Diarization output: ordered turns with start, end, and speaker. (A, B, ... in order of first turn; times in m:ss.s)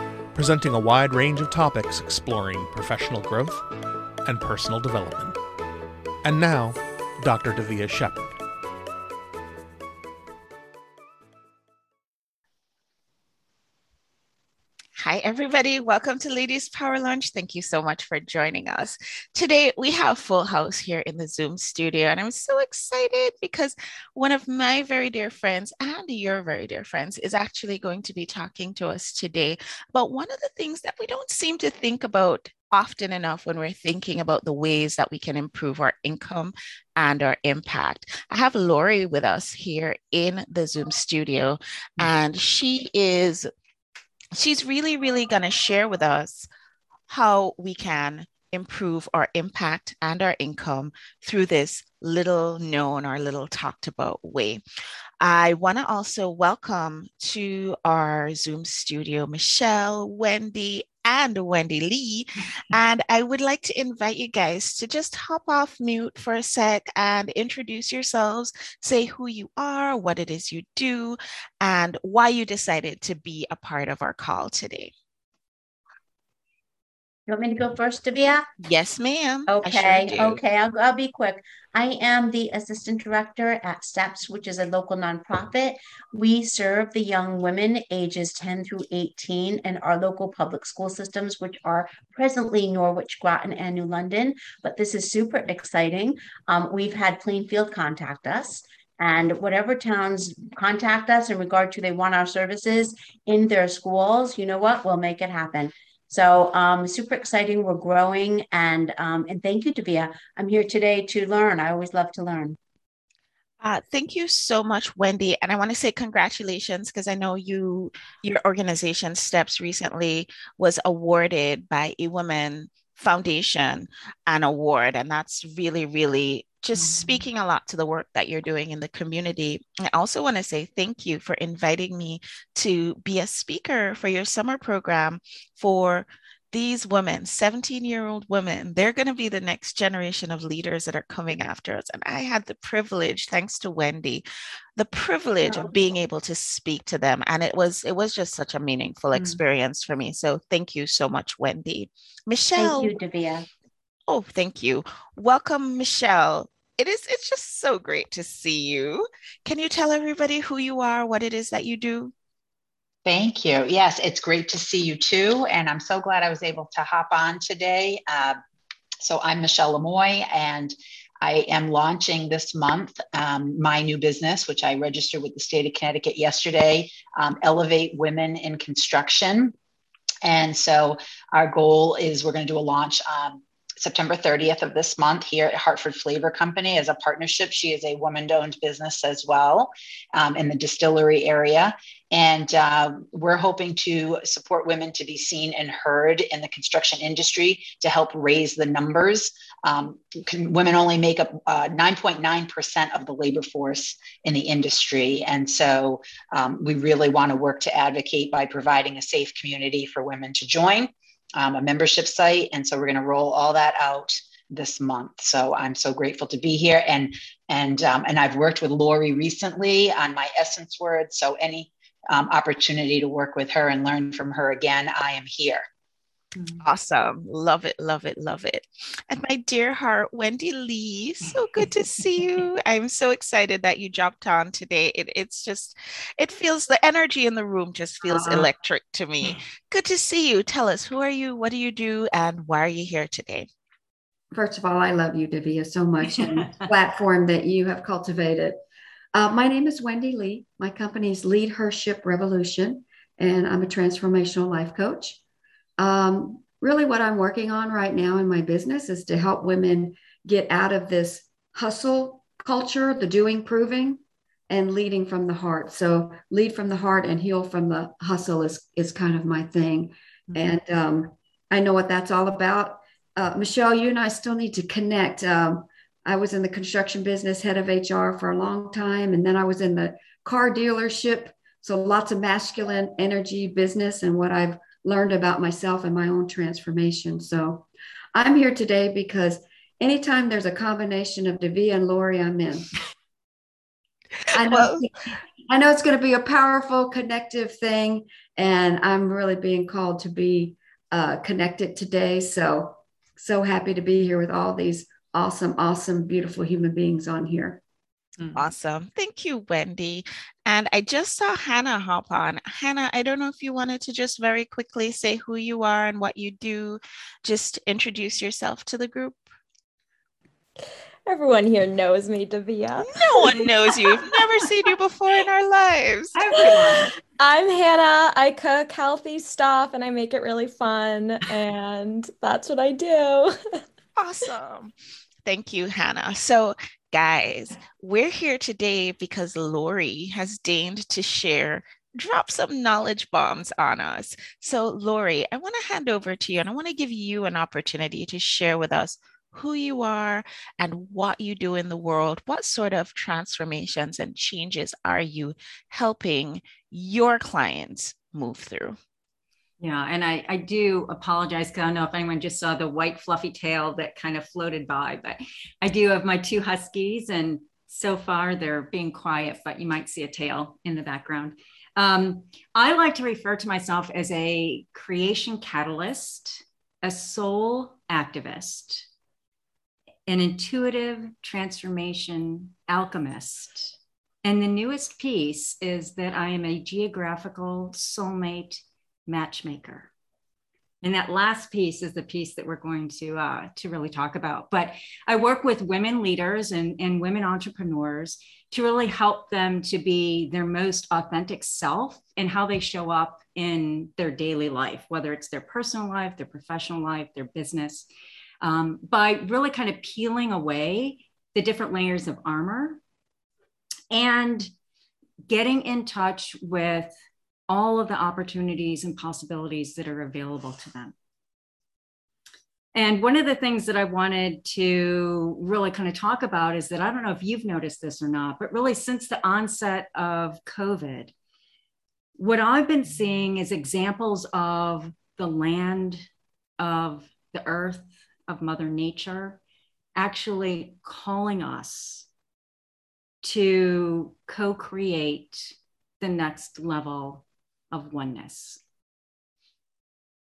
0:00.4-0:03.6 A
0:04.2-0:05.4 A
0:06.2-0:08.4 A
0:15.0-0:43.5 B
0:44.4-0:46.5 B
0:47.1-0:54.6 B
0:55.2-1:14.9 B
1:17.3-1:18.4 C
1:18.6-1:20.4 B
1:19.5-1:52.6 C
1:53.6-2:24.2 B
2:06.8-2:07.2 D
2:24.8-2:33.0 B
2:32.6-2:33.5 C
2:34.1-2:42.1 B
2:43.0-2:48.4 E
2:49.0-2:59.5 E
3:00.2-3:45.6 E
3:46.4-3:46.6 D
3:46.6-4:03.5 B
3:58.1-3:58.4 F
4:04.3-4:08.6 F
4:09.1-4:15.2 F
4:15.8-4:52.7 F
4:54.3-5:07.6 F
4:54.4-4:54.8 B
5:08.2-5:08.5 D
5:08.4-5:19.3 B
5:21.1-5:23.8 G
5:22.9-5:26.9 B
5:26.2-5:26.9 D
5:27.2-5:33.4 G
5:34.0-5:34.7 B
5:35.2-5:58.8 B
5:59.6-6:18.9 D
6:20.1-6:29.9 D
6:30.8-6:47.9 D
6:48.4-6:52.8 D
6:53.9-6:54.5 D
6:55.3-6:57.0 D
6:57.5-7:00.9 D
7:02.7-7:11.1 D
7:12.2-7:16.0 D
7:16.6-7:19.4 D
7:20.0-7:22.1 D
7:23.2-7:28.6 D